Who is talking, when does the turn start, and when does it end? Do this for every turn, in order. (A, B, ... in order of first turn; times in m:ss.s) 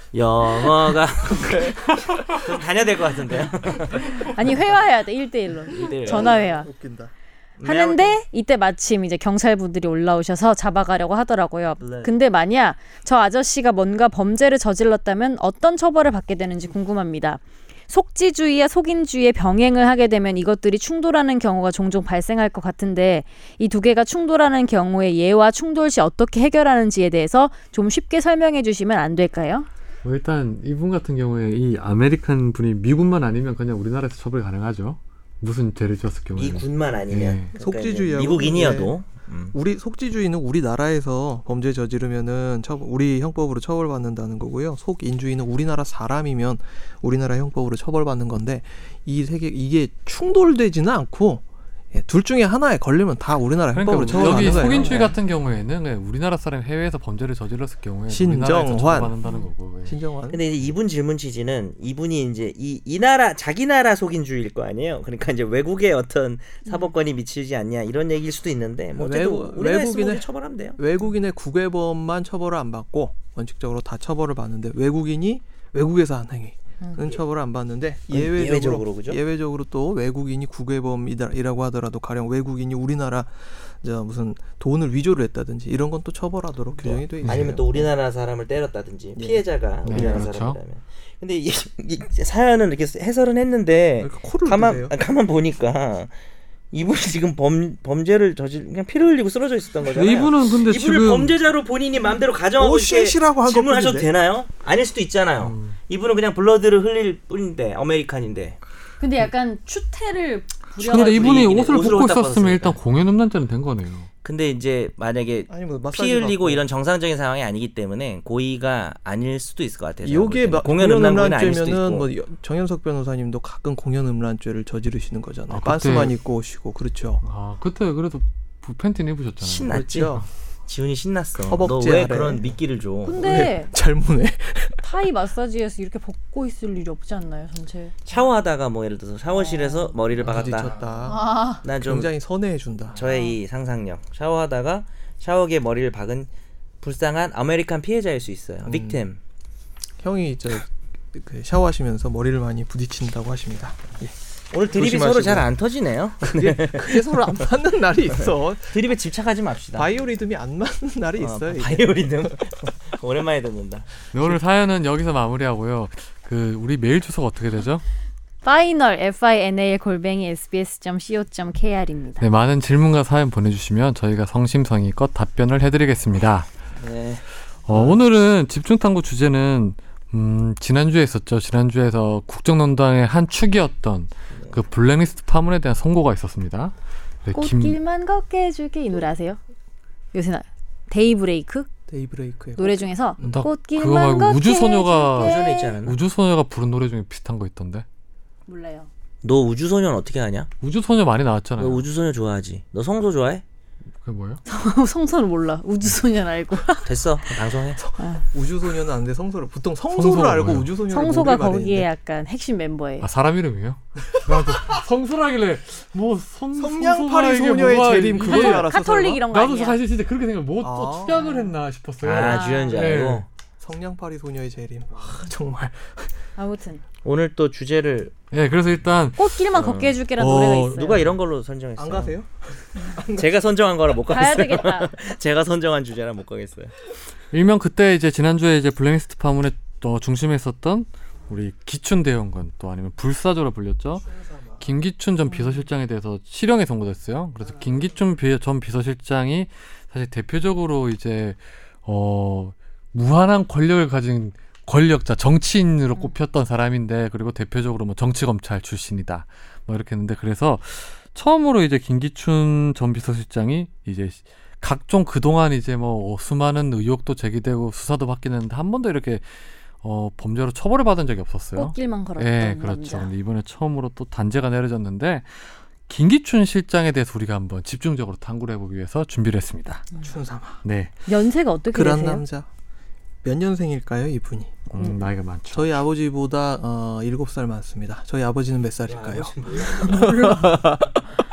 0:00.1-0:04.5 A
0:01.3-0:02.1 B
0:04.2-0:06.7 C
0:05.7-0:06.4 A
0:06.0-0:07.1 B
0:07.6-0:08.2 A
0:07.6-0:29.7 C
0:11.8-0:12.1 A
0:30.0-0:37.5 D
0:36.4-0:39.6 A
0:37.6-0:39.0 B
0:39.5-0:55.2 B
0:53.7-1:00.0 D
0:54.2-0:55.1 C
0:58.1-0:59.1 B
0:59.2-0:59.5 C
0:59.8-1:00.4 B
1:00.3-1:10.8 A
1:09.0-1:27.9 B
1:18.1-1:19.2 A
1:26.8-1:36.1 A
1:29.2-1:30.3 B
1:29.8-1:30.6 D
1:34.0-1:35.0 B
1:36.7-1:48.6 A
1:39.9-1:41.4 D
1:42.6-1:44.1 B
1:45.4-1:45.8 D
1:49.0-1:51.7 C
1:50.8-1:54.1 D
1:50.8-1:52.8 A
1:54.2-2:02.1 A
1:55.5-1:56.6 B
2:00.0-2:07.2 B
2:05.5-2:06.1 D
2:07.2-2:09.7 D
2:09.4-2:13.5 A
2:09.7-2:10.2 B
2:11.4-2:12.5 B
2:13.0-2:13.7 C
2:13.1-2:14.8 B
2:14.8-2:18.0 C
2:18.0-2:20.8 A
2:19.3-2:19.9 C
2:20.2-2:23.0 B
2:21.1-2:21.6 C
2:21.6-2:22.1 A
2:22.9-2:26.3 A
2:23.0-2:23.4 C
2:26.8-2:29.2 A
2:28.6-2:29.0 B
2:30.0-2:34.2 B
2:34.5-2:37.0 A
2:34.7-2:35.5 B
2:36.2-2:38.9 B
2:38.7-2:39.9 A
2:39.8-2:42.3 B
2:41.2-2:44.1 A
2:44.1-2:47.8 D
2:48.4-2:52.2 C
2:52.2-2:56.5 D
2:56.8-2:58.0 A
2:57.7-3:07.8 D
3:07.3-3:09.4 C
3:10.1-3:11.7 C
3:11.9-3:13.5 B
3:12.6-3:15.8 C
3:13.2-3:17.8 D
3:15.2-3:16.0 A
3:18.5-3:18.9 C
3:19.2-3:20.5 A
3:20.6-3:21.9 D
3:21.6-3:23.4 A
3:24.0-3:24.4 D
3:24.5-3:26.9 C
3:26.8-3:27.8 A
3:27.8-3:31.9 B
3:28.0-3:28.2 C
3:29.9-3:30.7 D
3:30.9-3:33.1 C
3:33.0-3:38.7 D
3:34.2-3:34.8 B
3:36.6-3:39.3 B
3:38.3-3:39.8 C
3:39.3-3:43.3 D
3:40.6-3:41.2 B
3:41.1-3:41.5 C
3:42.0-3:43.3 A
3:42.2-3:42.9 C
3:43.6-3:46.1 B
3:46.4-3:46.8 C
3:47.0-3:48.2 A
3:48.3-3:49.4 D
3:49.2-3:51.1 C
3:49.5-3:50.0 A
3:50.2-3:51.2 D
3:50.7-3:52.1 A
3:51.8-3:53.4 B
3:53.2-3:56.7 A
3:54.1-3:55.0 C
3:57.3-4:29.2 D
4:04.2-4:04.6 B
4:05.3-4:05.7 C
4:29.8-4:39.9 D
4:31.6-4:33.1 C
4:40.0-4:40.6 B
4:40.6-4:41.0 D
4:41.1-4:42.2 C
4:41.7-4:42.5 B
4:43.2-4:45.0 B
4:44.7-4:45.8 D
4:45.5-4:51.1 B
4:48.9-4:50.4 A
4:49.7-4:50.6 C